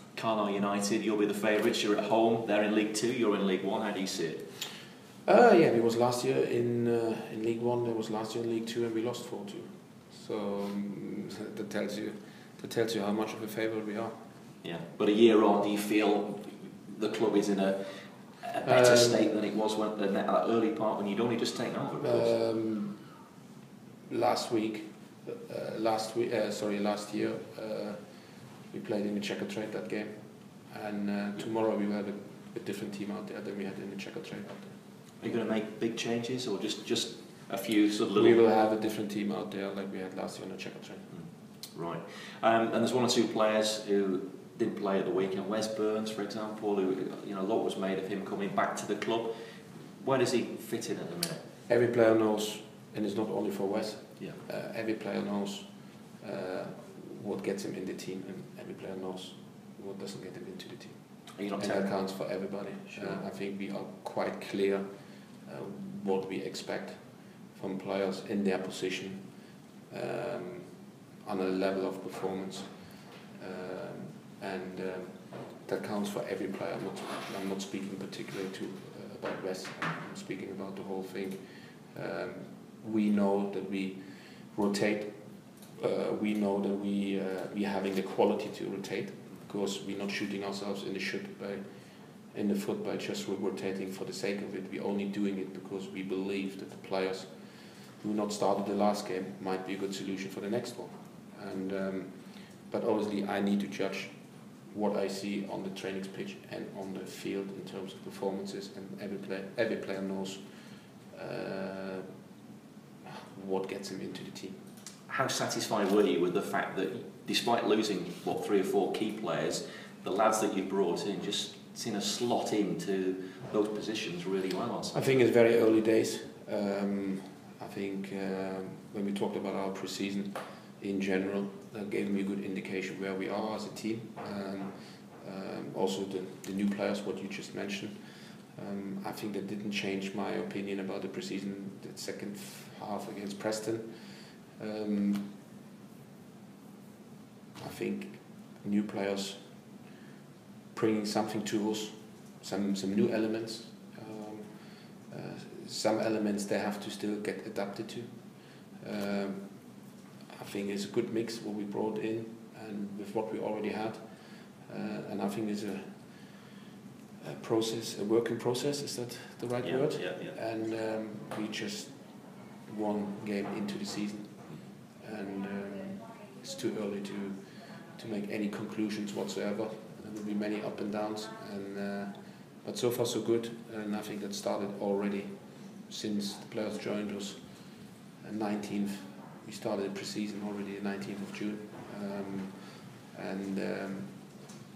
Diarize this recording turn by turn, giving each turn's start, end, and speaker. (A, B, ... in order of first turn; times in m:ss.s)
0:00.1-0:04.5 A
0:05.2-0:14.2 B
0:14.6-0:22.4 A
0:18.6-0:19.3 B
0:22.0-0:23.1 B
0:24.0-0:34.8 B
0:35.2-0:38.4 A
0:38.1-0:41.2 B
0:41.1-0:51.4 A
0:51.7-1:52.0 B
1:01.4-1:03.2 A
1:53.0-1:54.6 B
1:55.1-2:05.0 A
2:04.9-2:25.3 B
2:27.6-2:29.8 B
2:30.7-2:46.5 B
2:47.2-3:14.5 B
2:49.6-2:50.4 A